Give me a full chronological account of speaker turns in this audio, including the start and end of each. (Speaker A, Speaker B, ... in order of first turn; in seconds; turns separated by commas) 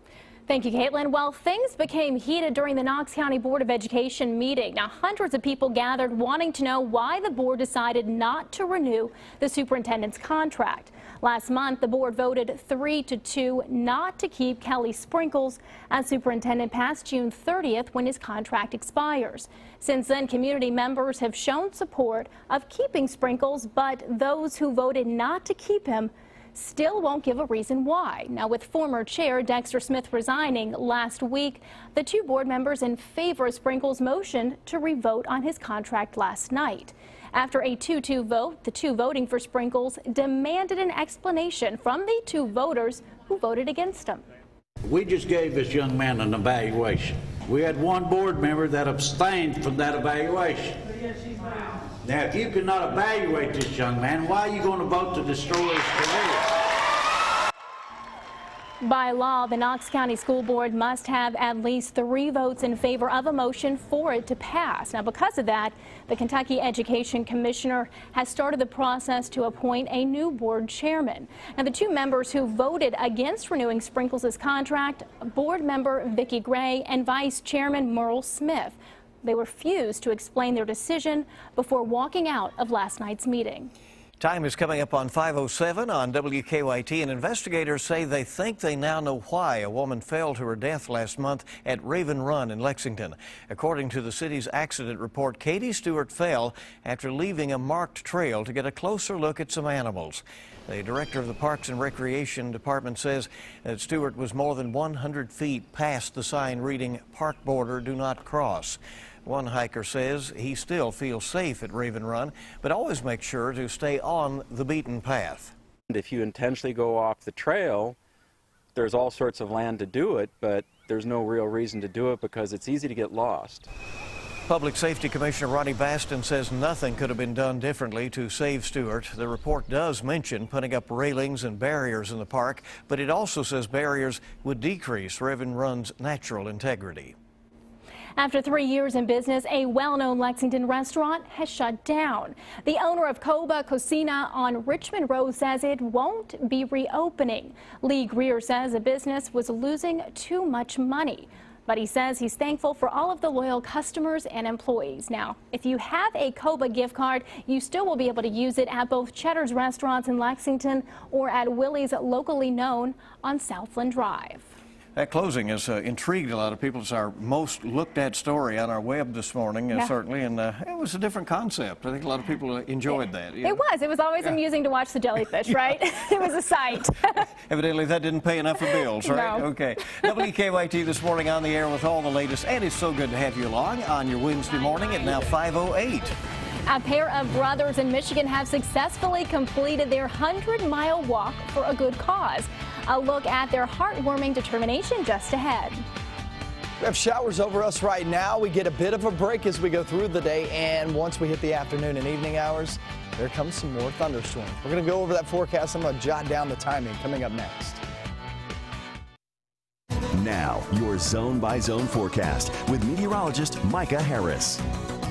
Speaker A: 0.5-44.2, Speaker B: 44.9-50.8, Speaker B: 52.0-56.4, Speaker A: 58.8-83.7, Speaker C: 84.2-115.5, Speaker D: 115.9-118.0, Speaker D: 118.8-123.7, Speaker C: 124.5-137.1, Speaker A: 138.2-164.5, Speaker C: 164.9-173.6, Speaker A: 172.9-177.3, Speaker C: 177.5-186.2, Speaker A: 178.6-180.1, Speaker A: 186.7-195.8, Speaker E: 196.8-207.8, Speaker F: 210.2-214.6